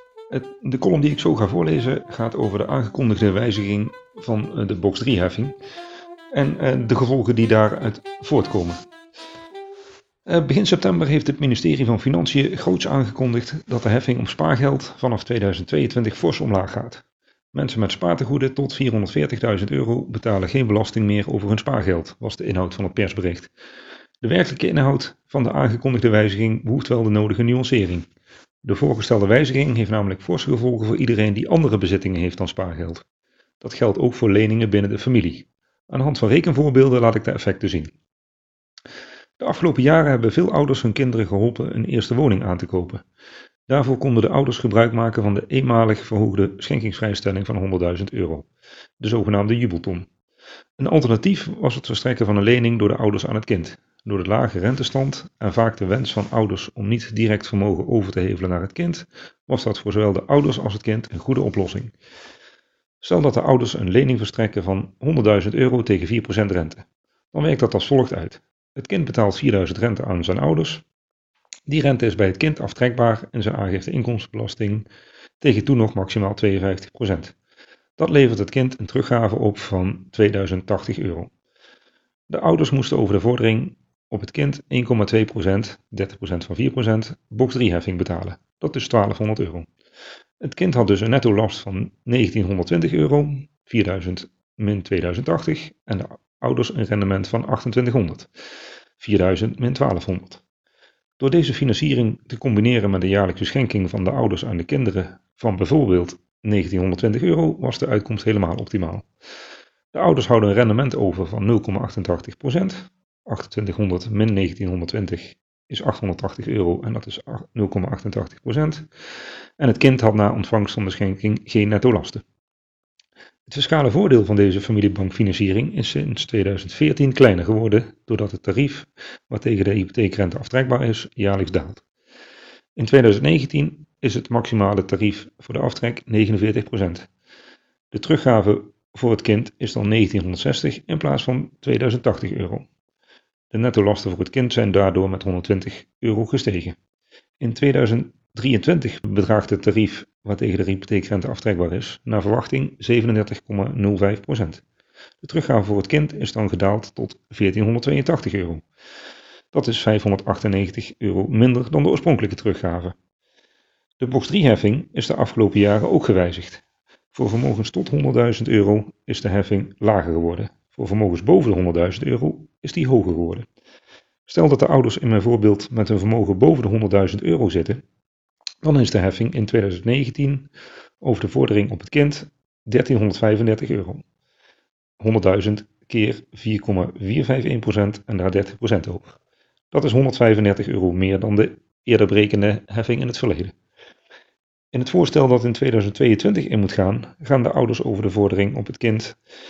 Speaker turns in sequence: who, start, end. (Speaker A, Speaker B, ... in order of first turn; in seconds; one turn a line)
Speaker A: 0.3-5.5
Speaker A: 6.3-8.8
Speaker A: 10.2-23.5
Speaker A: 24.2-28.1
Speaker A: 28.6-33.0
Speaker A: 33.6-37.9
Speaker A: 39.4-43.0
Speaker A: 43.7-48.5
Speaker A: 49.0-50.1
Speaker A: 50.8-61.9
Speaker A: 63.0-70.8
Speaker A: 71.7-74.9
Speaker A: 75.4-77.3
Speaker A: 78.0-81.3
Speaker A: 82.3-89.7
Speaker A: 90.4-98.3
Speaker A: 99.0-100.4
Speaker A: 101.2-109.0
Speaker A: 109.9-118.8
Speaker A: 119.6-122.2
Speaker A: 123.5-131.8
Speaker A: 132.8-137.1
Speaker A: 137.9-142.7
Speaker A: 143.5-146.8
Speaker A: 147.4-154.6
Speaker A: 155.2-158.6
Speaker A: 159.5-162.9
Speaker A: 164.0-166.6
Speaker A: 167.1-173.5
Speaker A: 174.3-177.8
Speaker A: 178.6-180.5
Speaker A: 181.0-184.0
Speaker A: 185.0-189.2
Speaker A: 189.7-193.5
Speaker A: 194.7-199.2